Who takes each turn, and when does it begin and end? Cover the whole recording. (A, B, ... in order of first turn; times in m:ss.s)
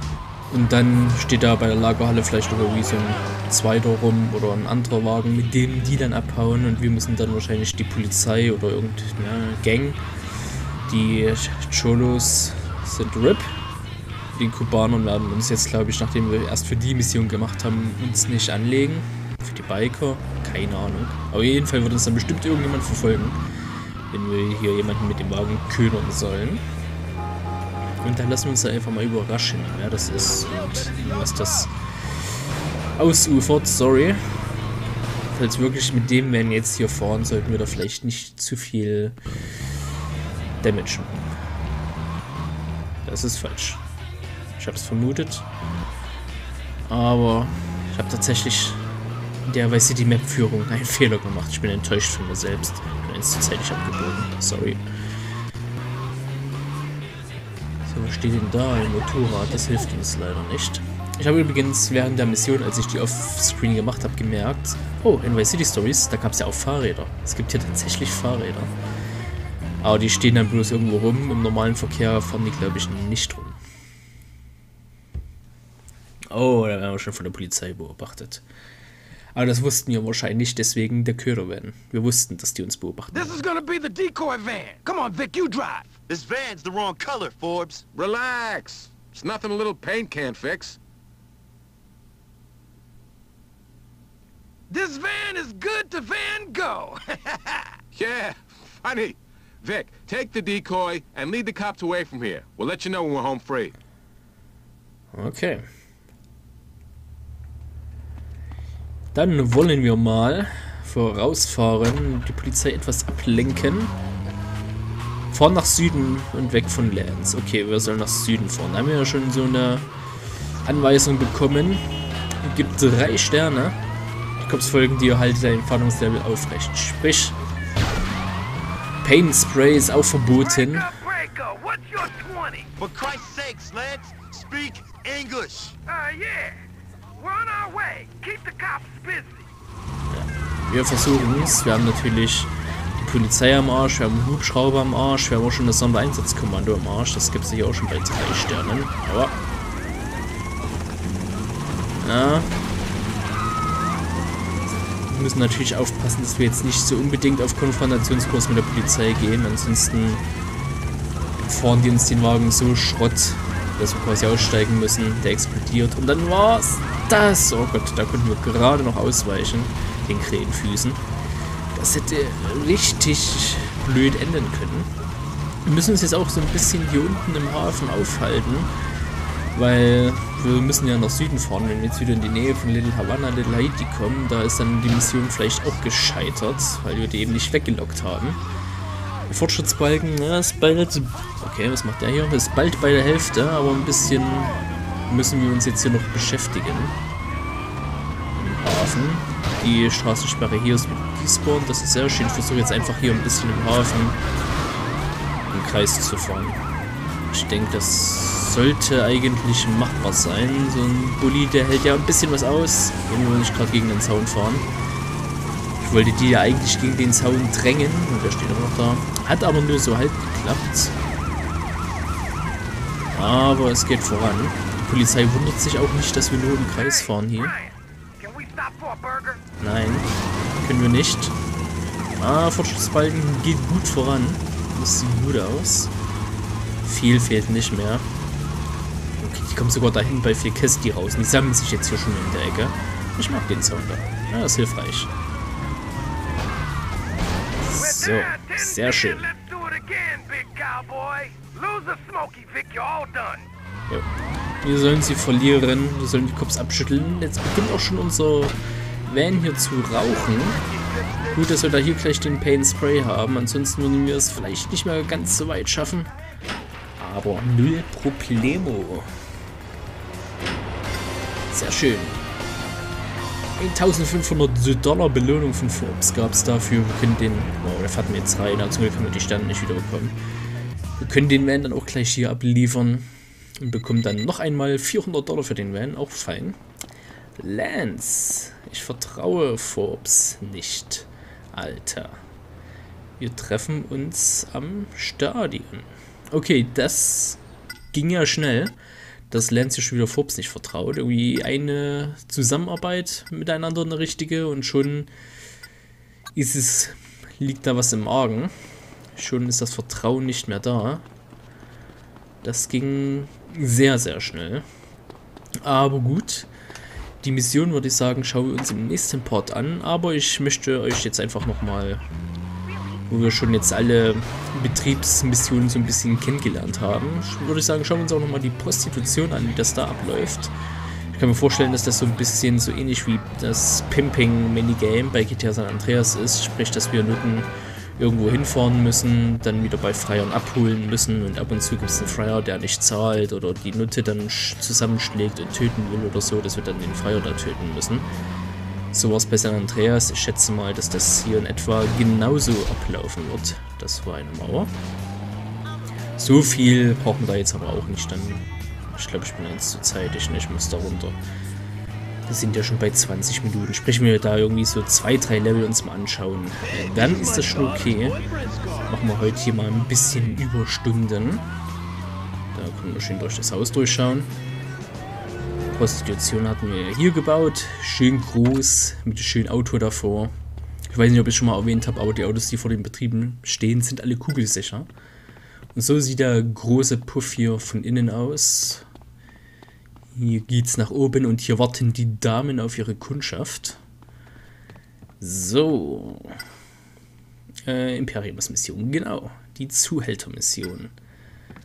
0:00.5-0:10.0 A
0:10.9-0:13.5 A
0:14.3-0:23.4 A
0:24.1-0:26.6 A
0:28.0-0:31.7 A
0:33.0-0:34.4 A
0:35.3-0:39.2 A
0:40.6-0:41.2 A
0:43.0-0:43.8 A
0:44.6-0:45.4 A
0:46.9-0:48.9 A
0:49.4-0:54.8 A
0:57.8-1:08.7 A
1:09.8-1:13.6 A
1:16.3-1:18.4 A
1:19.3-1:23.4 A
1:23.1-1:26.0 B
1:26.1-1:27.8 C
1:27.9-1:30.8 D
1:34.7-1:37.6 B
1:37.9-1:43.7 D
1:45.1-1:45.6 A
1:49.1-1:53.9 A
1:55.3-1:59.9 A
2:00.6-2:01.9 A
2:02.4-2:03.8 A
2:04.4-2:07.3 A
2:09.0-2:10.9 A
2:10.3-2:12.7 B
2:12.8-2:15.8 C
2:15.9-2:16.6 B
2:17.1-2:19.5 B
2:20.1-2:29.3 A
2:32.0-2:32.5 A
2:35.0-2:40.2 A
2:41.4-2:51.0 A
2:51.7-2:54.9 A
2:55.6-2:58.7 A
2:59.5-3:08.4 A
3:09.3-3:17.0 A
3:18.4-3:24.2 A
3:25.5-3:26.6 A
3:27.3-3:34.7 A
3:35.8-3:40.9 A
3:43.1-3:47.6 A
3:46.6-3:49.4 B
3:49.6-3:51.4 A
3:52.2-3:55.9 A
3:56.8-3:58.1 A
3:59.2-4:05.1 A
4:07.6-4:09.3 A
4:07.7-4:13.5 B
4:14.6-4:20.6 A
4:20.6-4:21.6 C
4:21.3-4:26.1 A
4:27.0-4:29.1 A
4:31.5-4:32.2 A
4:33.6-4:40.2 A
4:41.0-4:43.1 A
4:43.6-4:46.6 A
4:47.4-4:52.2 A
4:53.2-4:57.4 A
4:57.9-4:58.7 A
4:59.3-5:05.1 A
5:06.3-5:08.5 A
5:09.2-5:11.0 A
5:12.4-5:14.6 A
5:15.6-5:16.5 A
5:17.2-5:22.0 A
5:23.1-5:30.5 A
5:31.1-5:48.1 A
5:48.9-5:54.7 A
5:56.2-6:01.2 A
6:02.3-6:08.2 A
6:06.6-6:09.1 C
6:08.8-6:11.4 A
6:12.5-6:14.3 A
6:15.7-6:20.3 A
6:20.9-6:24.9 A
6:25.7-6:28.8 A
6:30.1-6:33.8 A
6:35.2-6:36.4 A
6:37.6-6:40.9 A